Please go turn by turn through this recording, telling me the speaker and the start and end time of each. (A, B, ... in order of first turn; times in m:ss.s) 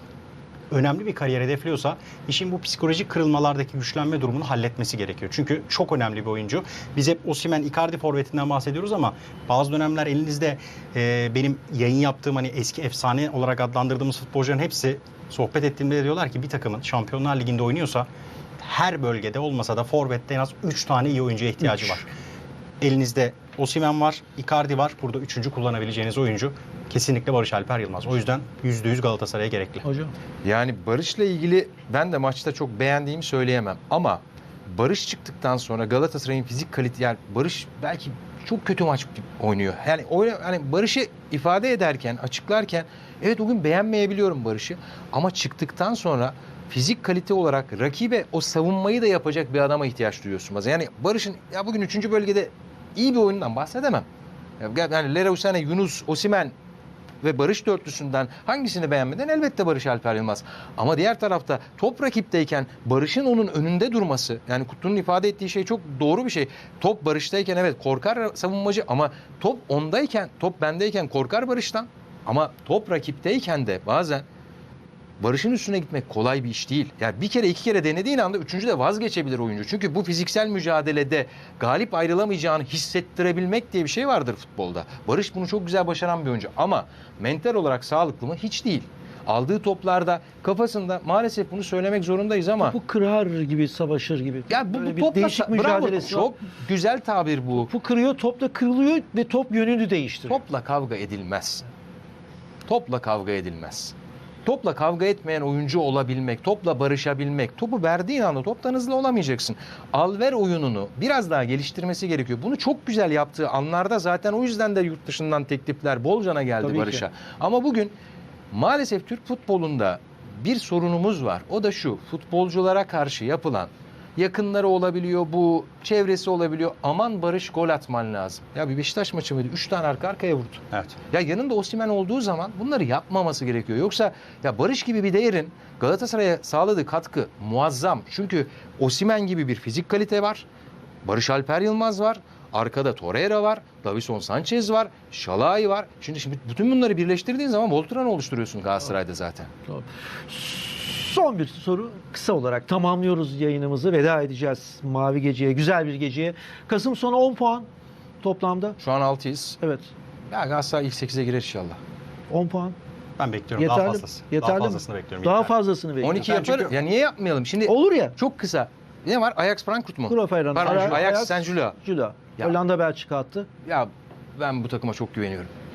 0:00.7-0:18.1 A
0:18.6-0:22.1 A
0:22.8-0:29.8 A
0:29.8-0:30.1 B
0:30.4-0:54.0 C
0:54.6-0:56.5 C
0:57.2-1:14.2 C
1:15.2-1:32.7 C
1:32.6-1:36.3 B
1:34.5-1:37.7 C
1:37.5-1:40.4 B
1:40.3-1:41.7 C
1:42.6-1:43.9 C
1:44.4-1:57.9 C
1:56.6-1:57.0 B
1:58.5-2:20.4 C
2:21.0-2:29.5 C
2:29.7-2:37.7 B
2:38.2-2:38.8 B
2:38.8-2:39.6 C
2:39.6-2:39.9 B
2:40.3-2:41.8 C
2:42.3-2:42.8 B
2:43.2-2:45.5 A
2:43.6-2:46.4 B
2:46.0-2:51.8 C
2:46.1-2:46.8 A
2:47.6-2:48.2 B
2:50.0-2:53.5 B
2:53.6-2:55.5 C